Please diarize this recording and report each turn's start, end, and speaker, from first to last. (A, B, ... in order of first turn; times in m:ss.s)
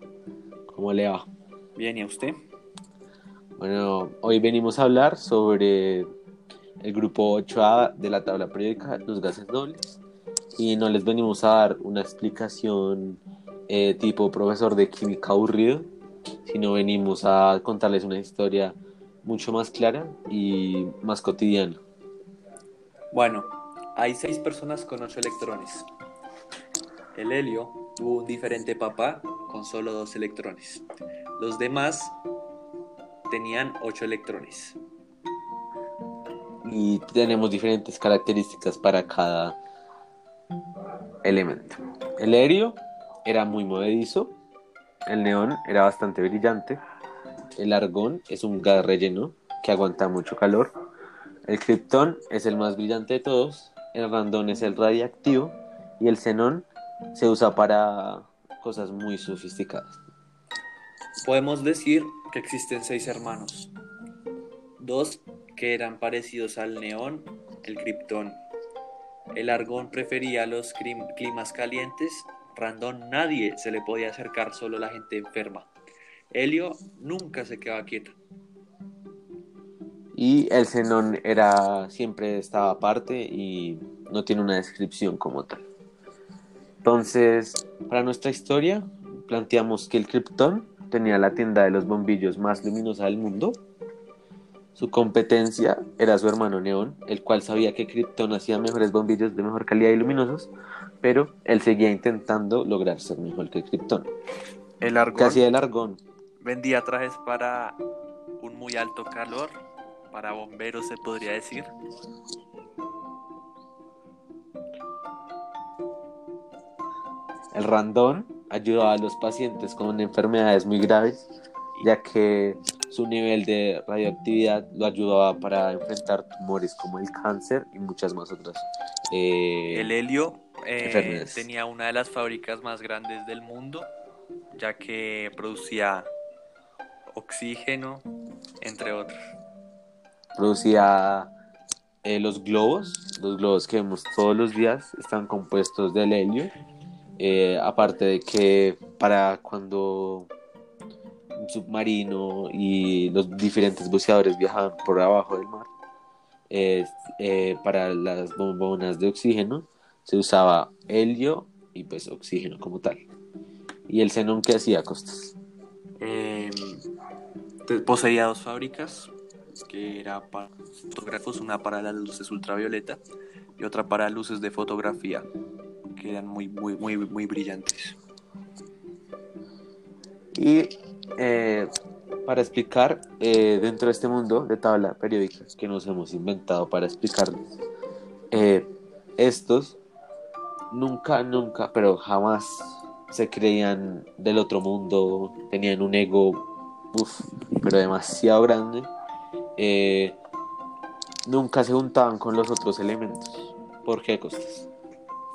0:00.7-0:01.3 A
0:01.8-0:02.4 B
0:03.6-0:06.1 A
0:06.8-0:10.0 A
0:10.6-0:15.9 A
0:16.4-0:21.8 A
0:23.1-0:25.9 B
0:27.1-0:30.8 B
0:31.4-0:32.2 B
0:33.3-0:34.8 B
0:36.6-0:39.6 A
0:41.2-0:44.3 A
0:45.0-0:46.8 A
0:47.6-0:50.7 A
0:51.5-1:00.0 A
1:01.2-1:03.7 B
1:04.8-1:08.4 B
1:09.3-1:15.7 B
1:16.3-1:18.2 B
1:20.1-1:25.6 A
1:26.8-1:33.6 A
1:34.7-1:40.5 A
1:41.0-1:44.1 A
1:44.8-1:45.4 B
1:45.1-1:46.0 A
1:46.4-1:47.8 B
1:48.4-1:49.6 B
1:50.1-1:51.7 B
1:57.5-2:01.2 A
2:01.8-2:09.9 A
2:09.7-2:13.9 B
2:10.8-2:11.5 A
2:14.5-2:16.1 B
2:17.1-2:18.0 B
2:18.6-2:19.2 B
2:20.4-2:21.3 A
2:22.0-2:26.5 A
2:27.2-2:30.3 A
2:31.4-2:35.7 A
2:36.5-2:43.0 A
2:43.9-2:45.3 A
2:46.0-2:46.8 B
2:47.6-2:49.1 B
2:49.6-2:53.0 B
2:53.6-2:55.3 B
2:55.9-2:58.0 B
3:00.3-3:01.7 A
3:02.2-3:07.4 A
3:08.3-3:09.8 A
3:10.7-3:18.9 A
3:19.6-3:20.2 A
3:21.2-3:24.7 A